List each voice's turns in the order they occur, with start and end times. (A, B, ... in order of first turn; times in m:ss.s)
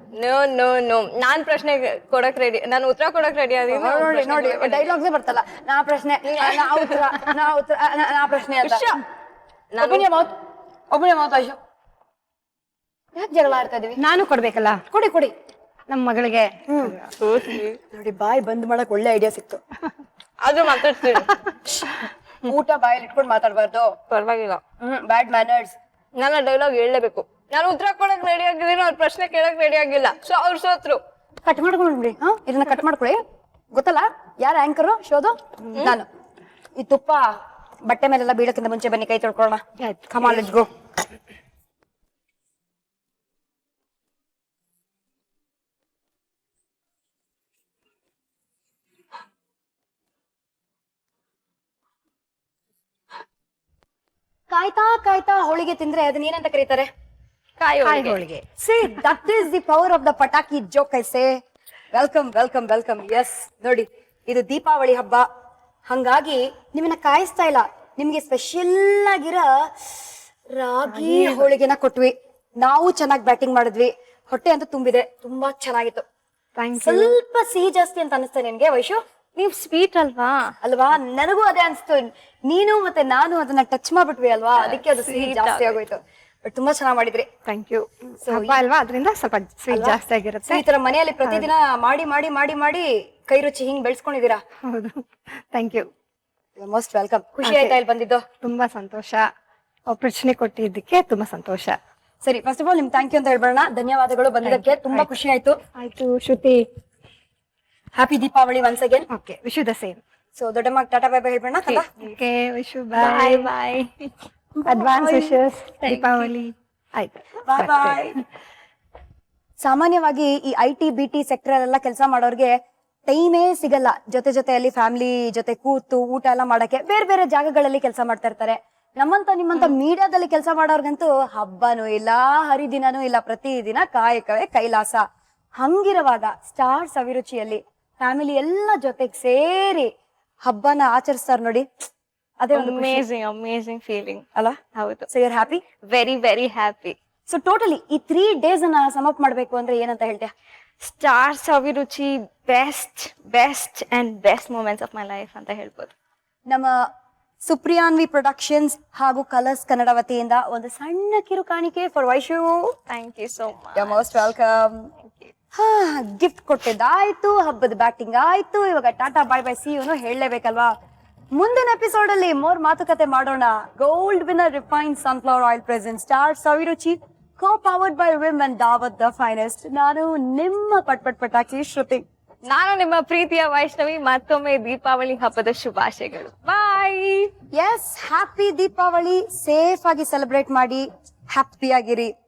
0:00.2-0:04.9 A
0:03.7-0:08.8 B
0:06.4-0:07.1 A
0:08.6-0:09.0 A
0:09.7-0:10.1 A
0:09.8-0:10.3 B
0:10.9-0:11.6 B
0:13.1-0:14.0 B
0:14.0-0:14.8 C
0:14.9-0:15.3 B
0:15.9-0:17.1 C
0:16.7-0:17.0 B
0:17.2-0:17.8 A
0:17.9-0:19.6 B
0:20.4-0:21.6 A
0:22.4-0:23.9 B
0:24.1-0:24.6 A
0:24.8-0:25.7 B
0:26.2-0:31.0 A
0:31.4-0:33.2 B
0:33.7-0:36.0 B
0:36.8-0:37.3 B
0:37.8-0:40.7 B
0:39.8-0:40.5 C
0:54.5-0:56.9 B
0:57.6-0:58.2 A
0:57.8-0:58.4 C
0:58.6-1:01.4 B
1:01.9-1:05.2 B
1:05.9-1:16.0 B
1:10.9-1:11.5 C
1:16.6-1:17.2 C
1:16.8-1:19.0 B
1:19.4-1:20.4 A
1:20.6-1:27.3 B
1:24.6-1:25.8 A
1:27.4-1:30.6 C
1:28.2-1:28.6 B
1:29.7-1:34.4 B
1:31.2-1:31.5 C
1:34.6-1:35.9 C
1:36.6-1:38.2 B
1:37.4-1:37.8 C
1:38.4-1:39.2 C
1:39.9-1:41.8 C
1:42.2-1:45.6 B
1:44.4-1:45.1 C
1:45.8-1:46.7 C
1:47.9-1:49.0 B
1:49.1-1:50.0 C
1:50.4-1:51.9 B
1:52.0-1:53.5 C
1:53.0-1:53.9 A
1:54.5-1:55.4 B
1:54.7-1:58.2 C
1:55.8-1:56.3 A
1:57.4-1:58.2 B
1:59.6-2:02.5 B
2:03.1-2:15.0 B
2:15.6-2:19.9 B
2:20.4-2:21.8 B
2:22.4-2:23.0 B
2:22.5-2:24.2 A
2:24.7-2:25.1 A
2:25.1-2:25.6 B
2:25.9-2:27.0 A
2:27.3-2:30.3 B
2:30.8-2:35.9 A
2:37.4-2:42.7 B
2:42.9-2:44.2 A
2:43.7-2:44.9 B
2:45.0-2:45.3 A
2:45.5-2:50.7 B
2:51.3-3:02.0 B
3:02.5-3:07.3 A
3:07.5-3:12.1 B